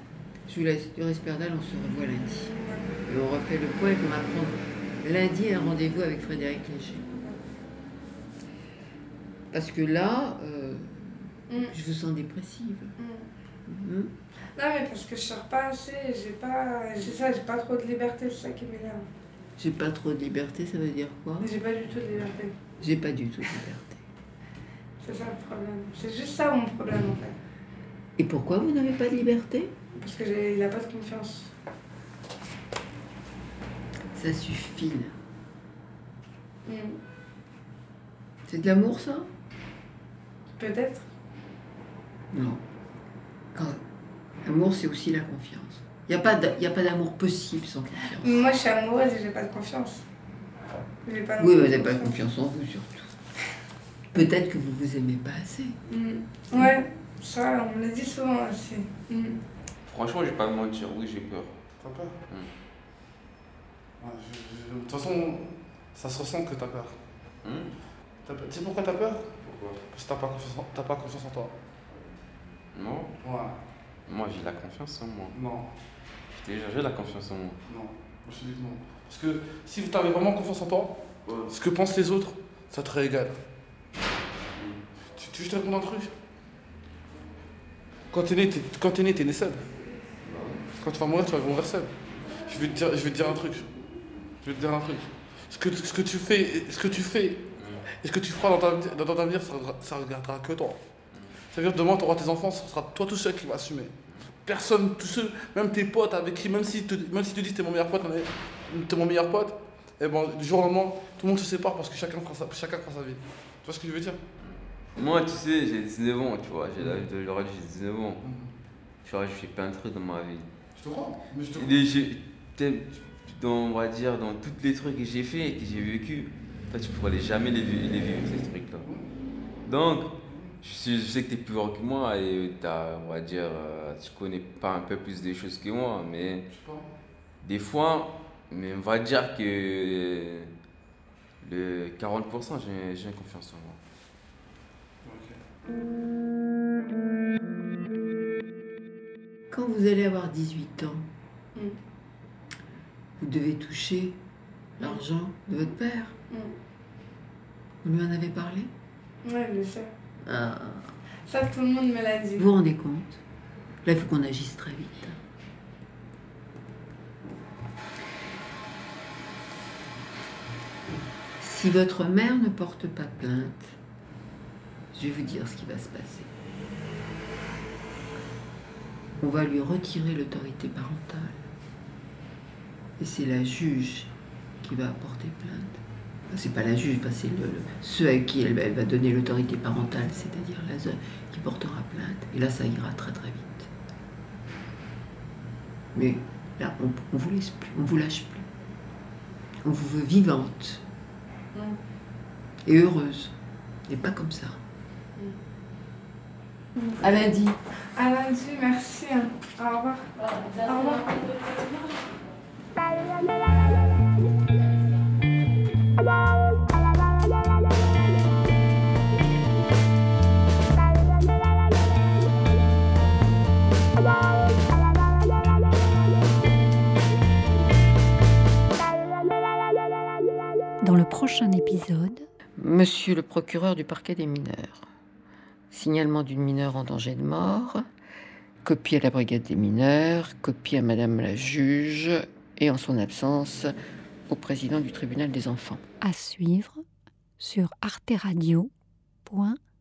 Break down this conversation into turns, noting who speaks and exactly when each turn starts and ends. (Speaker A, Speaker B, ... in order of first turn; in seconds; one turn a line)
Speaker A: 0.5-2.5
Speaker B: 2.5-2.9
Speaker A: 3.1-7.1
Speaker A: 9.5-12.9
Speaker B: 13.0-13.3
Speaker A: 13.7-14.1
Speaker B: 14.6-19.1
Speaker A: 19.6-21.5
Speaker B: 21.4-22.5
Speaker A: 22.8-24.0
Speaker B: 25.0-27.4
Speaker A: 28.2-29.7
Speaker B: 30.0-31.5
Speaker A: 34.1-35.1
Speaker B: 36.7-37.0
Speaker A: 38.5-39.3
Speaker B: 40.6-41.1
Speaker A: 42.3-42.6
Speaker A: 44.4-48.5
Speaker B: 48.2-50.1
Speaker B: 51.0-52.1
Speaker A: 51.4-53.1
Speaker A: 54.1-55.8
Speaker B: 55.9-59.4
Speaker C: 59.9-61.5
Speaker D: 61.8-62.2
Speaker D: 64.0-67.0
Speaker C: 67.4-67.8
Speaker D: 68.2-69.3
Speaker C: 69.4-69.8
Speaker D: 69.9-71.5
Speaker C: 72.7-73.1
Speaker D: 73.2-73.6
Speaker C: 74.1-75.3
Speaker D: 75.3-75.7
Speaker C: 76.3-77.6
Speaker D: 77.7-83.4
Speaker D: 85.2-86.1
Speaker D: 88.1-89.6
Speaker C: 90.2-90.6
Speaker D: 90.8-91.9
Speaker D: 92.5-93.7
Speaker D: 94.4-100.8
Speaker C: 97.6-97.9
Speaker D: 101.5-103.9
Speaker D: 104.5-114.2
Speaker C: 115.0-118.2
Speaker D: 118.2-118.5
Speaker C: 119.0-120.5
Speaker D: 120.8-121.7
Speaker C: 121.5-128.9
Speaker D: 128.8-129.1
Speaker C: 129.7-130.1
Speaker D: 130.3-130.6
Speaker C: 130.6-136.4
Speaker D: 136.5-136.9
Speaker C: 137.4-140.5
Speaker C: 141.4-143.8
Speaker D: 145.0-145.4
Speaker A: 149.5-151.1
Speaker A: 153.2-154.2
Speaker A: 154.8-156.2
Speaker A: 157.8-158.7
Speaker B: 159.2-159.9
Speaker A: 160.2-160.9
Speaker B: 161.3-162.5
Speaker A: 162.4-163.2
Speaker A: 163.8-165.2
Speaker A: 171.4-173.8
Speaker A: 174.9-176.3
Speaker A: 179.2-181.5
Speaker A: 183.0-185.8
Speaker A: 186.3-193.7
Speaker A: 195.9-198.5
Speaker A: 199.7-200.8
Speaker A: 202.7-203.3
Speaker A: 203.9-204.6
Speaker B: 206.8-207.1
Speaker A: 207.0-207.6
Speaker B: 207.9-211.2
Speaker E: 230.8-232.3
Speaker A: 232.6-234.9
Speaker A: 235.7-237.8
Speaker A: 238.6-243.7
Speaker A: 244.3-245.8
Speaker E: 246.0-246.8
Speaker E: 247.4-248.7
Speaker E: 249.3-249.6